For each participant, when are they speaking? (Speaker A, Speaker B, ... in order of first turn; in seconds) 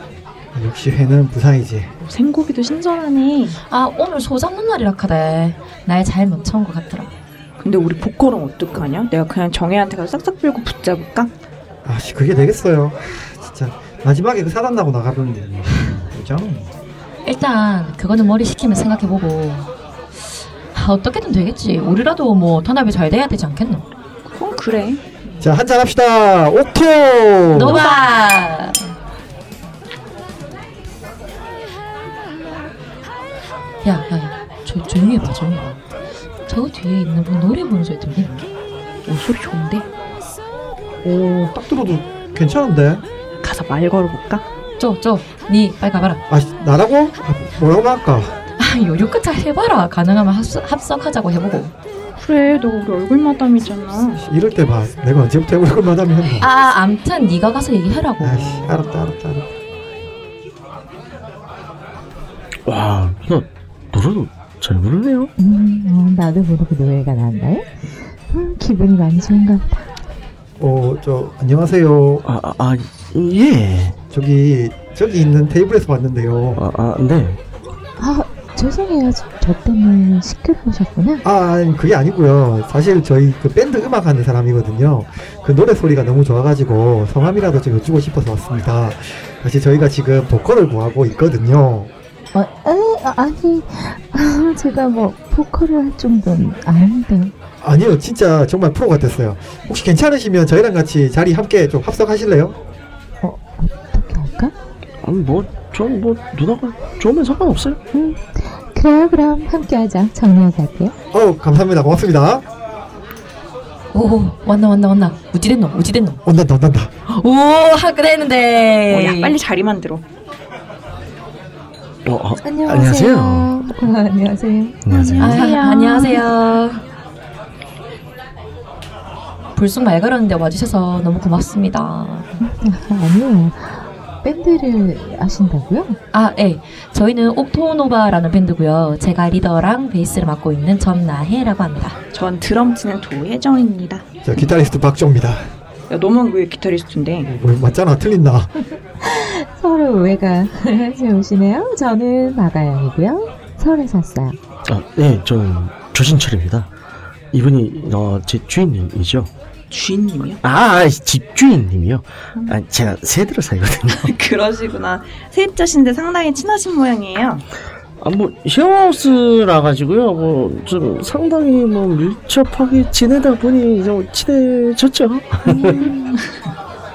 Speaker A: 0.5-1.9, 11.8-16.7, 25.4-27.8, 41.0-43.0, 46.3-48.4, 54.2-56.5, 58.2-59.5, 70.6-72.2, 74.1-76.6, 81.2-91.9, 97.6-102.6, 111.1-112.4, 116.2-116.9, 144.2-145.5, 147.2-148.5
Speaker B: 2.0-3.6, 7.6-11.3, 24.2-25.1, 27.7-28.0, 39.0-39.9, 43.4-44.4, 52.2-54.2, 118.9-120.0, 124.9-126.2, 142.1-144.1, 145.9-147.3, 159.7-160.4, 163.9-167.4, 175.5-176.2
Speaker C: 3.7-7.1, 17.2-19.7, 20.7-23.8, 27.5-28.8, 33.8-35.8, 36.5-38.5, 44.8-46.2, 48.6-51.7, 56.4-58.8, 113.9-116.2, 117.1-119.3, 125.2-126.8, 129.5-132.4, 136.1-142.0
Speaker D: 62.6-65.3, 72.2-74.0, 76.5-77.4, 105.0-107.8, 122.0-123.5, 124.8-125.4, 154.7-156.7, 157.3-159.3, 160.4-164.1, 168.0-175.9
Speaker E: 65.4-67.7, 68.3-69.9, 78.0-81.2, 92.3-97.3, 103.2-104.5, 107.9-110.9, 122.4-124.8, 132.4-136.0, 149.0-154.4